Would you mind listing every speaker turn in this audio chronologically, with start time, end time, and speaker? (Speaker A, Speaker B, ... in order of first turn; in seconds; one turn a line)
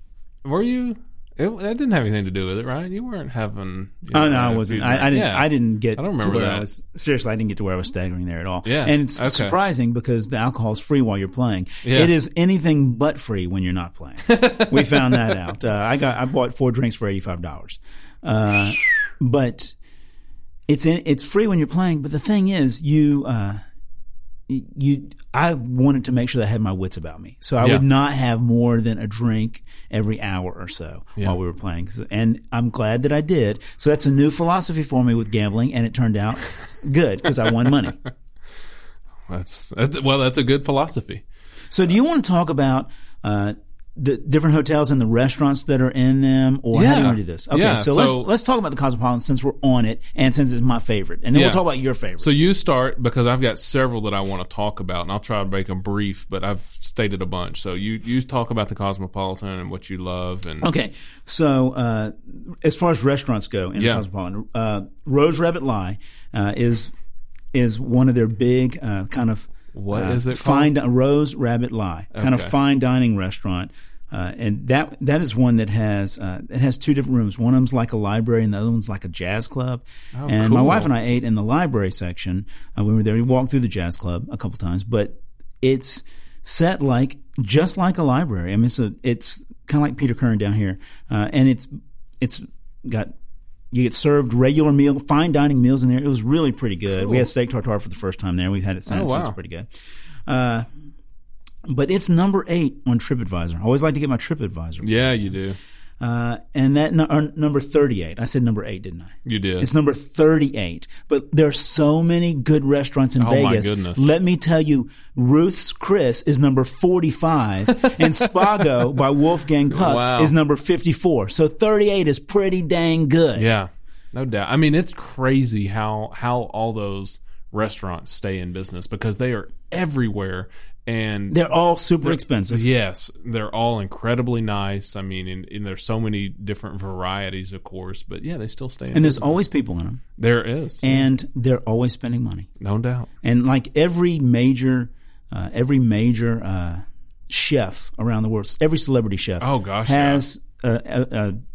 Speaker A: 0.5-6.7
Speaker B: 4.1-19.8
Speaker A: 8.7-9.6
Speaker A: 11.8-12.1
Speaker A: 14.3-15.3
Speaker B: 20.7-23.6
Speaker B: 24.5-38.0
Speaker A: 39.3-41.2
Speaker B: 41.7-52.3
Speaker A: 46.7-48.3
Speaker A: 51.3-51.6
Speaker A: 52.2-60.7
Speaker B: 60.6-66.9
Speaker A: 63.8-64.0
Speaker B: 67.5-91.7
Speaker A: 69.7-70.7
Speaker A: 72.1-72.5
Speaker A: 80.2-80.9
Speaker B: 92.2-93.1
Speaker B: 93.7-99.7
Speaker A: 98.9-99.4
Speaker B: 100.3-100.7
Speaker B: 101.7-105.2
Speaker A: 104.8-105.6
Speaker B: 106.0-123.5
Speaker A: 109.2-109.7
Speaker A: 113.2-114.1
Speaker A: 117.7-118.6
Speaker A: 119.7-120.3
Speaker A: 123.4-131.4
Speaker B: 131.3-132.7
Speaker A: 132.0-139.4
Speaker B: 138.9-140.0
Speaker A: 140.2-141.1
Speaker B: 140.8-142.5
Speaker A: 142.6-143.1
Speaker B: 143.2-151.4
Speaker A: 149.4-150.2